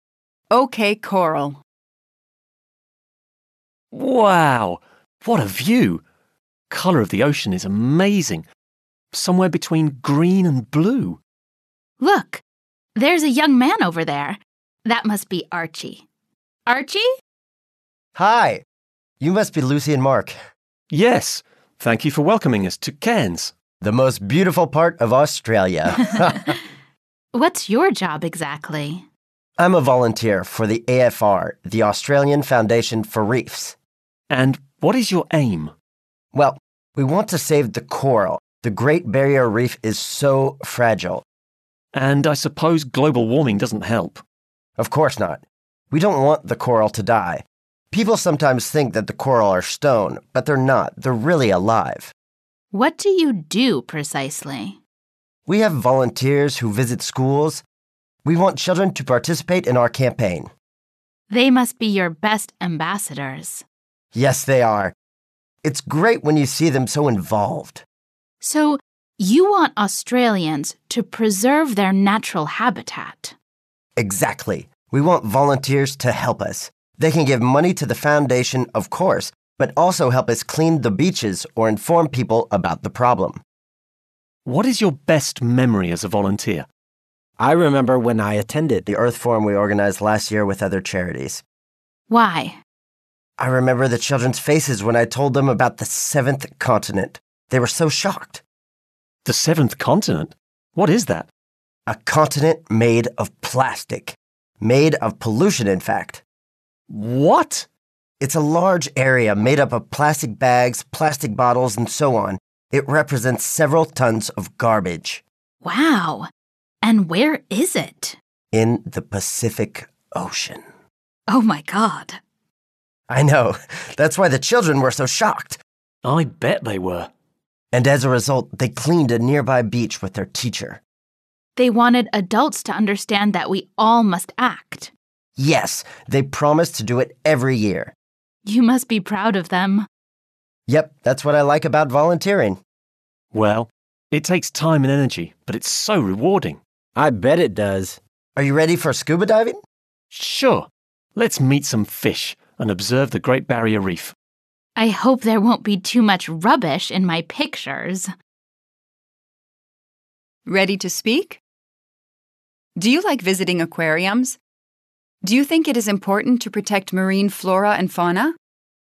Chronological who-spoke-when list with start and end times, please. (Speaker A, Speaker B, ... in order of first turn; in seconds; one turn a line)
Speaker A: 0.5-1.6
Speaker B: 3.9-6.0
Speaker B: 6.7-8.4
Speaker B: 9.1-11.2
Speaker C: 12.0-12.4
Speaker C: 12.9-16.0
Speaker C: 16.7-17.1
Speaker D: 18.1-18.6
Speaker D: 19.2-20.4
Speaker B: 20.9-23.5
Speaker D: 23.8-26.6
Speaker C: 26.1-26.4
Speaker C: 27.3-29.0
Speaker D: 29.6-33.8
Speaker B: 34.3-35.7
Speaker D: 36.3-41.2
Speaker B: 41.9-44.2
Speaker D: 44.8-52.1
Speaker C: 52.7-54.8
Speaker D: 55.5-57.6
Speaker D: 58.2-60.5
Speaker C: 61.3-63.6
Speaker D: 64.1-64.9
Speaker D: 65.6-67.8
Speaker C: 68.4-73.3
Speaker D: 74.0-83.4
Speaker B: 84.4-86.7
Speaker E: 87.4-88.8
Speaker D: 88.9-91.4
Speaker C: 92.1-92.6
Speaker D: 93.4-98.4
Speaker B: 99.2-101.3
Speaker D: 101.9-106.2
Speaker B: 106.9-107.7
Speaker D: 108.2-115.2
Speaker C: 115.6-116.3
Speaker C: 116.8-118.2
Speaker D: 118.5-120.6
Speaker C: 121.3-122.2
Speaker D: 123.1-125.6
Speaker B: 126.0-127.1
Speaker D: 127.7-130.8
Speaker C: 131.6-134.9
Speaker D: 135.4-137.9
Speaker C: 138.4-139.9
Speaker D: 140.7-142.6
Speaker B: 143.3-146.6
Speaker E: 146.9-148.0
Speaker D: 148.3-149.6
Speaker B: 150.1-154.1
Speaker C: 154.8-158.1
Speaker A: 160.4-161.4
Speaker A: 162.8-164.4
Speaker A: 165.2-168.3